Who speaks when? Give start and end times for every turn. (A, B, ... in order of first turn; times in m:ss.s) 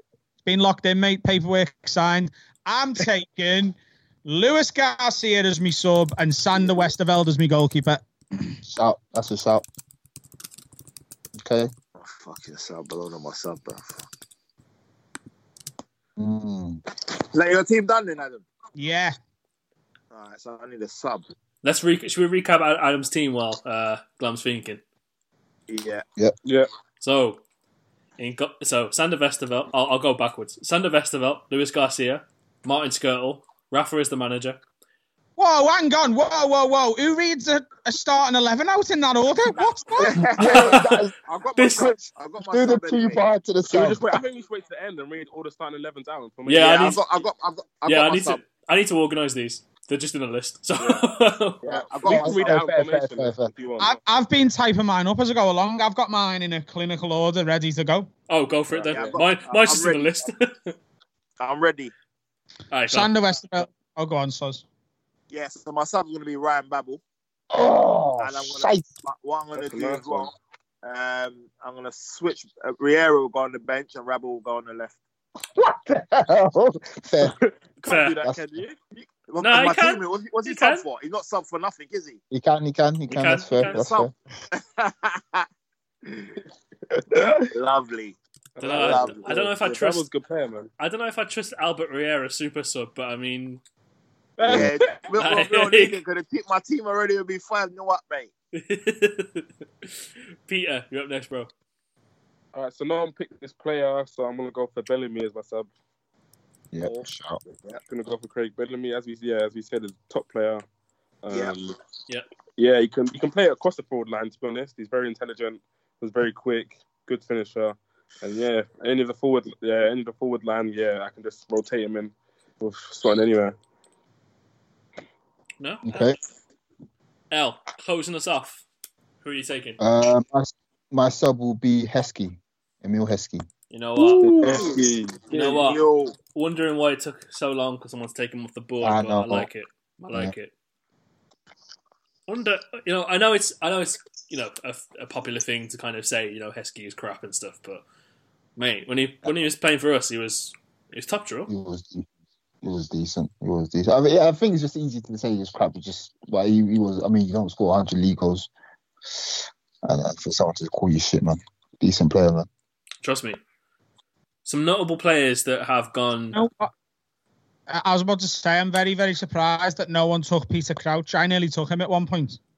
0:00.4-0:08.0 A
0:08.6-0:09.6 B
0:11.4-0:11.7 B
0:12.0-0:14.0 C
0:16.2-0:16.8 B
0:17.3-0:18.4 C
0:18.8-0:19.2 A
0:20.1-0:21.3 C
0:21.6-0:24.8 D
0:25.7-0:26.0 C
0:27.0-0:27.4 D
0:28.2-0:34.6 D
0:35.4-0:40.3 A
0:40.0-0:43.2 C
0:40.2-0:41.1 B
0:40.5-0:41.0 D
0:41.6-0:42.0 D
0:42.4-0:44.0 B
0:43.7-0:46.9 E
0:46.5-0:47.0 D
0:46.5-0:48.4 C
0:47.9-0:51.6 D
0:50.8-0:51.0 E
0:51.6-0:54.0 E
0:51.6-0:52.7 C
0:52.0-0:53.5 B
0:53.8-0:58.1 A
0:58.3-1:00.7 D
0:58.7-0:59.2 E
0:58.9-1:00.3 C
1:01.4-1:01.9 C
1:02.7-1:03.1 D
1:02.9-1:04.6 A
1:05.3-1:07.0 C
1:07.5-1:08.9 B
1:08.2-1:15.0 C
1:09.6-1:10.3 E
1:15.6-1:17.4 B
1:17.8-1:18.8 E
1:17.8-1:18.2 D
1:18.2-1:18.5 B
1:19.0-1:22.2 C
1:19.4-1:20.8 D
1:22.3-1:24.1 B
1:23.1-1:23.8 D
1:23.6-1:25.5 C
1:26.1-1:26.3 C
1:27.1-1:27.4 B
1:27.5-1:29.5 C
1:28.6-1:30.7 E
1:28.6-1:30.1 D
1:30.8-1:33.6 D
1:34.4-1:35.0 E
1:34.4-1:38.3 C
1:35.2-1:36.0 D
1:38.6-1:39.5 D
1:40.5-1:41.5 D
1:42.5-1:45.7 E
1:46.7-1:47.4 B
1:47.9-1:50.6 E
1:51.2-1:51.8 E
1:51.3-1:51.6 C
1:52.6-2:03.6 E
2:05.6-2:06.1 D
2:05.9-2:06.2 B
2:07.3-2:08.6 D
2:09.2-2:09.8 D
2:09.8-2:13.5 B
2:13.7-2:14.4 D
2:14.0-2:14.6 B
2:14.2-2:15.6 E
2:14.4-2:16.2 C
2:15.3-2:15.8 D
2:16.4-2:20.5 D
2:18.8-2:19.5 B
2:22.3-2:27.8 D
2:28.6-2:31.5 D
2:31.5-2:32.1 B
2:32.6-2:38.5 B
2:39.1-2:42.5 B
2:43.0-2:43.4 D
2:44.4-2:46.4 D
2:46.3-2:46.7 A
2:47.7-2:52.4 A